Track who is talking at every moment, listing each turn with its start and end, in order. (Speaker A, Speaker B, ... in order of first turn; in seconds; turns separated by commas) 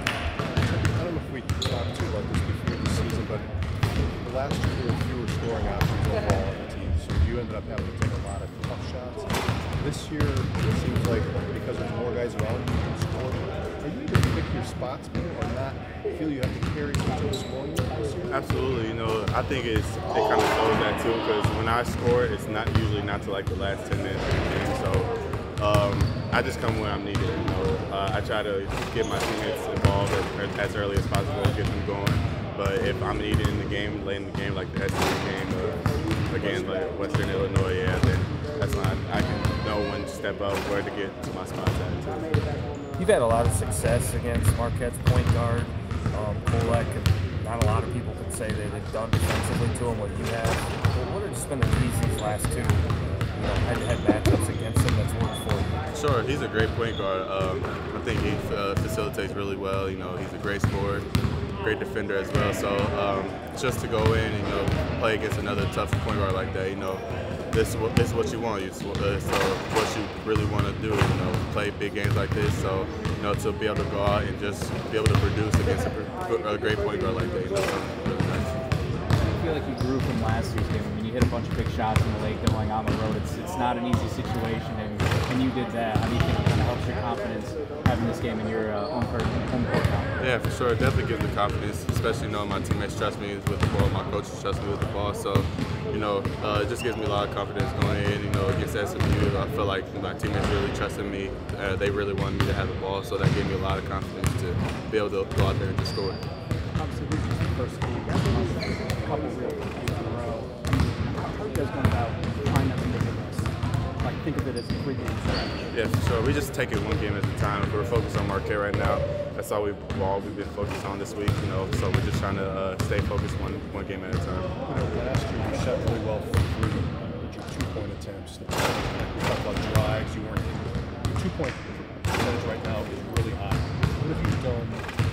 Speaker A: 0.6-3.5, Speaker A: 4.2-18.4, Speaker B: 18.3-42.3, Speaker C: 43.0-52.8, Speaker C: 53.3-55.8, Speaker B: 55.9-61.0, Speaker B: 61.6-78.6, Speaker D: 79.1-90.1, Speaker B: 90.2-106.2, Speaker D: 106.8-115.7, Speaker B: 115.7-125.0, Speaker A: 124.7-134.9